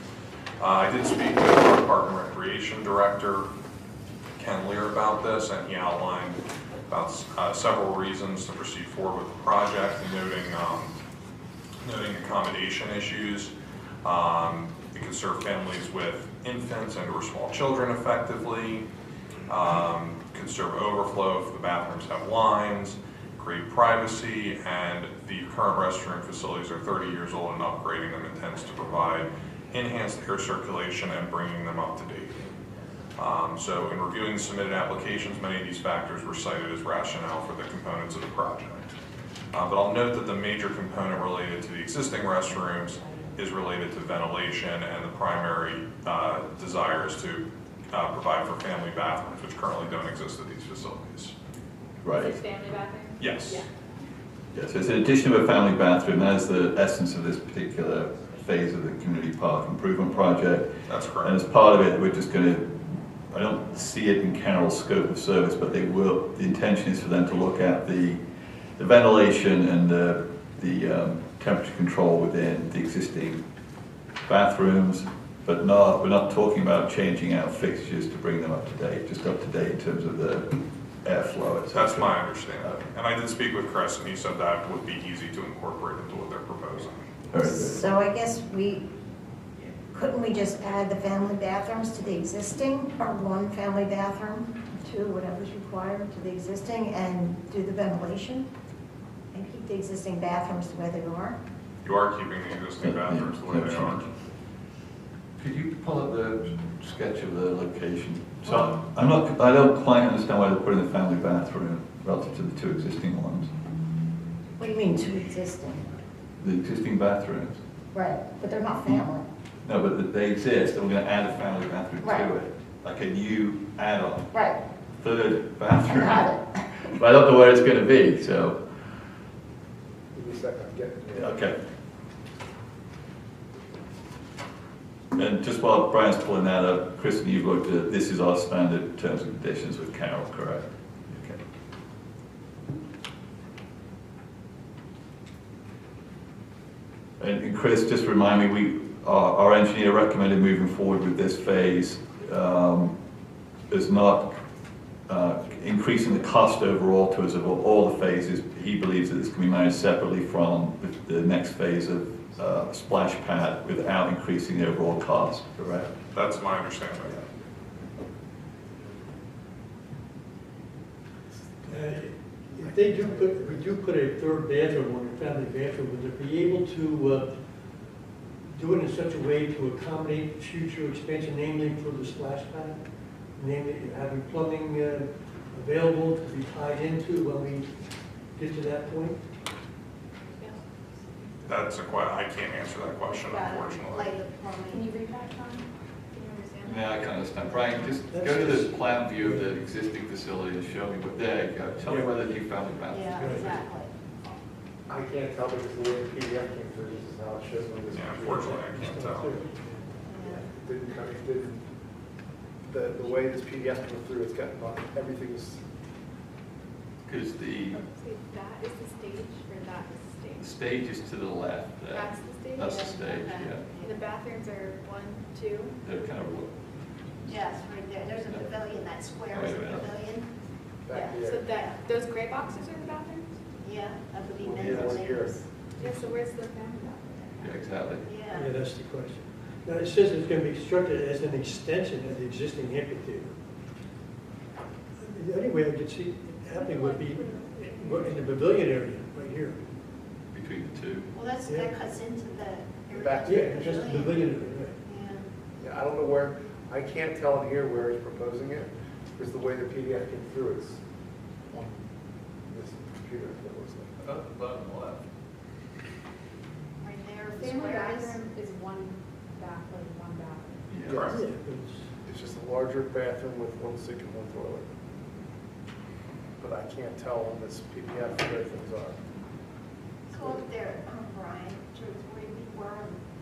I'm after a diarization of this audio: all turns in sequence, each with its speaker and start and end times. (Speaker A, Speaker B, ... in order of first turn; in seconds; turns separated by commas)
Speaker A: 0.6-3.5, Speaker A: 4.3-11.0, Speaker A: 11.8-13.5, Speaker A: 14.0-18.9, Speaker A: 19.5-32.4, Speaker A: 33.2-38.9, Speaker A: 39.5-51.4, Speaker B: 42.6-43.4, Speaker C: 52.0-52.4, Speaker B: 52.2-53.7, Speaker A: 53.2-53.6, Speaker C: 54.5-68.2, Speaker A: 60.9-61.4, Speaker C: 68.8-73.4, Speaker C: 74.2-82.8, Speaker A: 81.7-87.0, Speaker C: 87.3-87.8, Speaker D: 87.4-88.8, Speaker D: 89.9-98.5, Speaker D: 99.3-101.4, Speaker A: 101.8-104.1, Speaker C: 102.8-104.0, Speaker C: 105.4-113.5, Speaker D: 114.6-115.9, Speaker C: 116.4-117.6, Speaker D: 117.9-119.2, Speaker C: 119.6-124.3, Speaker D: 122.0-122.3, Speaker D: 124.3-124.6, Speaker C: 125.0-126.3, Speaker D: 125.8-126.8, Speaker C: 126.9-128.6, Speaker E: 130.1-131.3, Speaker C: 131.1-131.6, Speaker C: 135.1-141.4, Speaker C: 147.2-152.9, Speaker C: 153.7-154.3, Speaker C: 155.1-165.9, Speaker A: 166.1-167.2, Speaker E: 171.6-173.8, Speaker F: 171.7-177.3, Speaker F: 178.5-182.8, Speaker F: 183.3-187.7, Speaker F: 188.3-189.2, Speaker A: 191.4-194.1, Speaker G: 193.1-194.9, Speaker B: 194.7-197.0, Speaker C: 196.6-203.6, Speaker F: 198.1-199.5, Speaker F: 201.8-202.1, Speaker G: 202.9-203.9, Speaker F: 203.1-203.5, Speaker E: 204.9-208.7, Speaker A: 207.9-209.4, Speaker F: 208.5-209.8, Speaker G: 210.1-210.5, Speaker E: 210.2-211.6, Speaker E: 212.6-215.6, Speaker C: 217.1-217.8, Speaker B: 217.7-220.6, Speaker C: 220.4-223.6, Speaker B: 221.9-223.2, Speaker G: 222.6-224.1, Speaker B: 223.8-225.8, Speaker C: 225.8-226.5, Speaker G: 227.2-230.3, Speaker C: 228.1-228.6, Speaker C: 229.2-230.0, Speaker E: 230.8-231.4, Speaker G: 230.9-231.8, Speaker B: 231.3-233.4, Speaker G: 233.6-235.4, Speaker E: 234.4-235.5, Speaker B: 235.8-237.6, Speaker C: 237.4-238.1, Speaker G: 238.0-238.6, Speaker F: 238.3-243.3, Speaker F: 245.0-249.6, Speaker B: 246.5-248.4, Speaker C: 250.3-251.1, Speaker G: 251.1-255.3, Speaker F: 251.4-251.7, Speaker E: 252.9-253.6, Speaker F: 253.2-254.8, Speaker E: 255.6-260.8, Speaker E: 261.5-261.8, Speaker E: 262.5-263.9, Speaker C: 264.0-265.0, Speaker G: 266.8-268.2, Speaker B: 267.3-271.1, Speaker C: 270.7-271.1, Speaker E: 270.9-271.2, Speaker A: 270.9-271.2, Speaker F: 271.1-271.9, Speaker E: 272.0-274.6, Speaker E: 276.4-279.0, Speaker G: 280.1-283.0, Speaker E: 280.1-280.5